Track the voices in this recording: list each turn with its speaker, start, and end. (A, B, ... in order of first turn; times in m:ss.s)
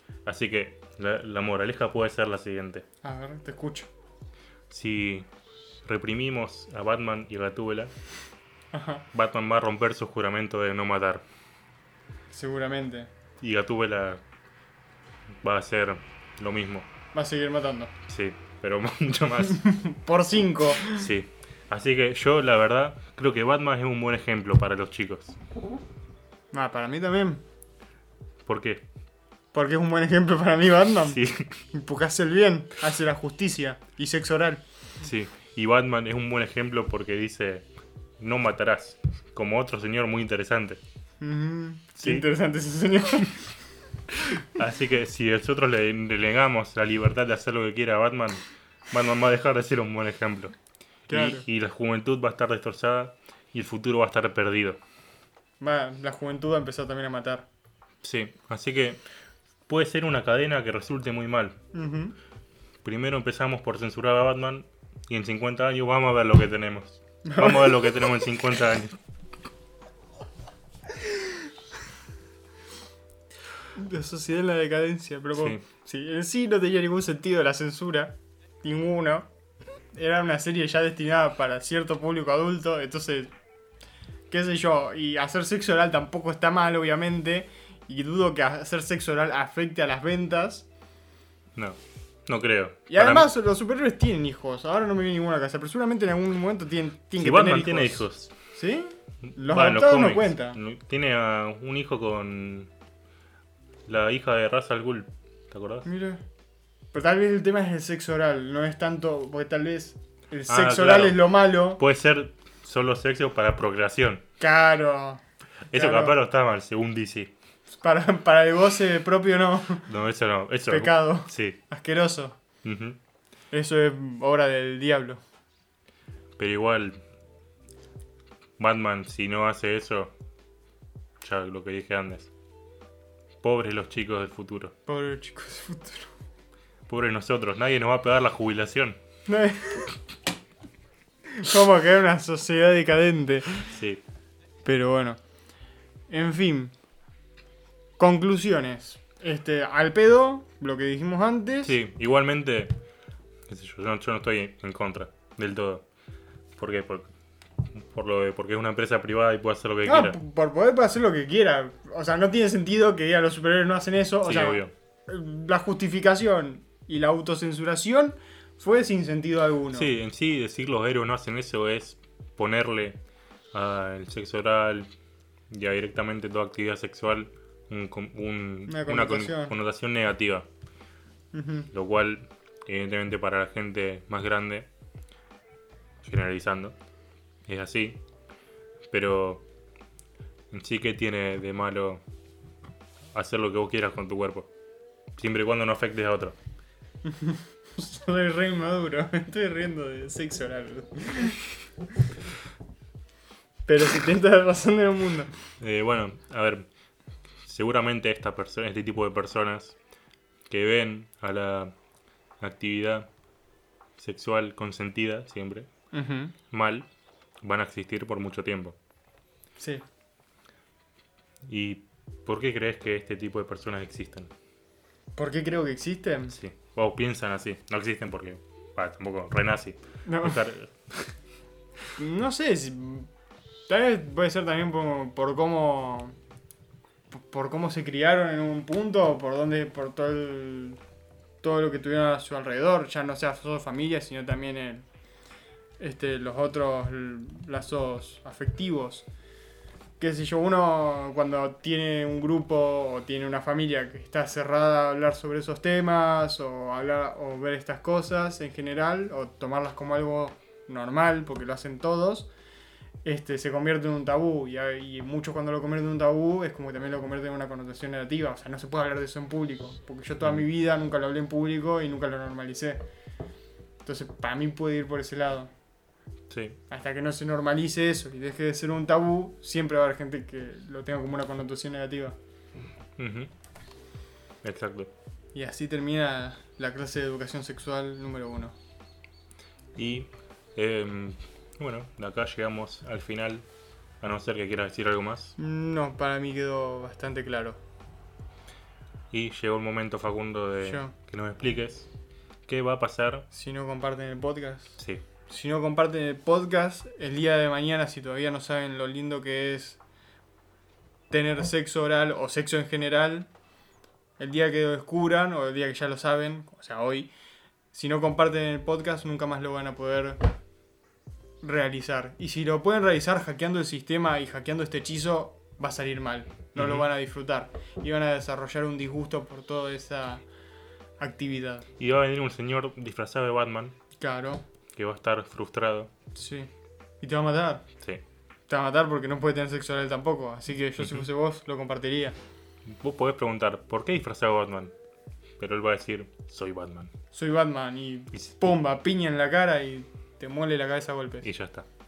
0:00.2-0:02.8 A
0:03.0-0:03.9 B
0:04.7-0:05.3 A
0:05.8-0:07.9 A
0:08.7-0:09.0 B
0:09.1-0:11.2 A
0:12.3-0:13.1 B
0:13.4-0:14.2 A
0:15.4-0:16.9 A
0:17.1-0:17.9 B
0:18.1-0:19.6 A
0:19.5-0:21.1 B
0:20.8-0:25.4 A
0:26.5-0:27.4 B
0:28.4-0:28.8 A
0:29.5-0:34.6 B
0:31.0-0:31.6 A
0:35.0-0:37.7 A
0:38.2-0:40.8 A
0:41.2-0:43.6 B
0:42.0-0:42.3 A
0:44.3-0:50.5 A
0:51.1-0:54.8 A
0:51.1-0:51.4 B
0:55.6-0:57.5 B
0:58.0-0:59.0 A
0:59.7-1:01.6 A
1:01.7-1:02.2 B
1:02.8-1:09.0 A
1:07.2-1:08.1 B
1:13.7-1:19.3 B
1:15.3-1:15.6 A
1:19.9-1:23.3 B
1:24.3-1:30.7 B
1:31.6-1:33.3 A
1:32.9-1:40.6 B
1:37.2-1:38.3 A
1:39.2-1:42.7 A
1:43.9-1:45.9 A
1:45.8-1:46.2 B
1:46.9-1:51.8 B
1:50.5-1:54.2 A
1:54.4-1:55.2 B
1:55.7-1:57.3 A
1:55.7-1:56.2 B
1:57.8-1:59.9 B
1:59.8-2:01.6 A
2:00.7-2:02.4 B
2:02.6-2:03.0 A
2:03.5-2:05.2 B
2:06.4-2:07.0 A
2:08.6-2:10.1 A
2:11.2-2:12.3 A
2:13.4-2:14.7 A
2:14.8-2:16.1 B
2:16.9-2:19.0 A
2:19.3-2:19.9 B
2:21.3-2:23.7 B
2:23.7-2:24.0 A
2:24.6-2:25.2 B
2:26.1-2:26.7 B
2:28.0-2:31.8 B
2:31.6-2:32.7 A
2:33.5-2:35.8 A
2:36.6-2:37.1 A
2:37.7-2:40.2 A
2:39.8-2:49.9 B
2:44.2-2:44.7 A
2:49.7-2:53.0 A
2:53.5-2:54.9 A
2:55.5-3:00.5 A
2:58.7-2:59.5 B
3:01.3-3:01.7 B
3:01.7-3:04.7 A
3:06.0-3:06.7 A
3:07.5-3:08.0 A
3:08.9-3:09.4 A
3:10.5-3:12.0 A
3:13.1-3:14.5 A
3:15.2-3:16.4 A
3:17.0-3:21.4 B
3:23.7-3:25.3 B
3:25.6-3:26.6 A
3:27.4-3:29.8 A
3:30.5-3:31.7 A
3:32.4-3:33.1 A
3:34.0-3:35.7 A
3:35.9-3:36.3 B
3:36.5-3:36.9 A
3:37.4-3:38.8 A
3:39.6-3:39.8 B
3:41.4-3:44.3 A
3:45.2-3:46.4 B
3:46.3-3:51.1 A
3:50.0-3:50.4 B
3:52.0-3:53.1 B
3:53.7-3:56.2 B
3:57.1-4:00.8 B
4:01.4-4:04.8 B
4:05.8-4:09.1 B
4:10.0-4:22.3 B
4:23.0-4:32.8 B
4:33.8-4:35.5 B
4:36.3-4:36.6 A
4:36.7-4:42.2 B
4:43.0-4:43.3 A
4:44.4-4:44.9 A
4:45.3-4:48.5 B
4:49.7-4:53.4 A
4:54.0-4:55.3 A
4:55.4-4:57.6 B
4:59.1-5:01.9 A
5:00.6-5:00.9 B
5:02.5-5:03.2 A
5:03.3-5:09.8 B
5:11.1-5:13.3 B
5:14.2-5:17.1 B
5:17.7-5:20.2 B
5:21.4-5:30.2 B
5:26.6-5:26.8 A
5:31.0-5:31.6 B
5:31.8-5:33.7 A
5:34.0-5:34.4 B
5:34.8-5:35.9 A
5:36.1-5:36.5 B
5:37.0-5:37.6 B
5:38.5-5:42.2 B
5:40.8-5:41.1 A
5:42.7-5:44.7 A
5:45.4-5:46.9 A
5:47.1-5:51.3 B
5:48.1-5:48.5 A
5:51.2-5:51.6 A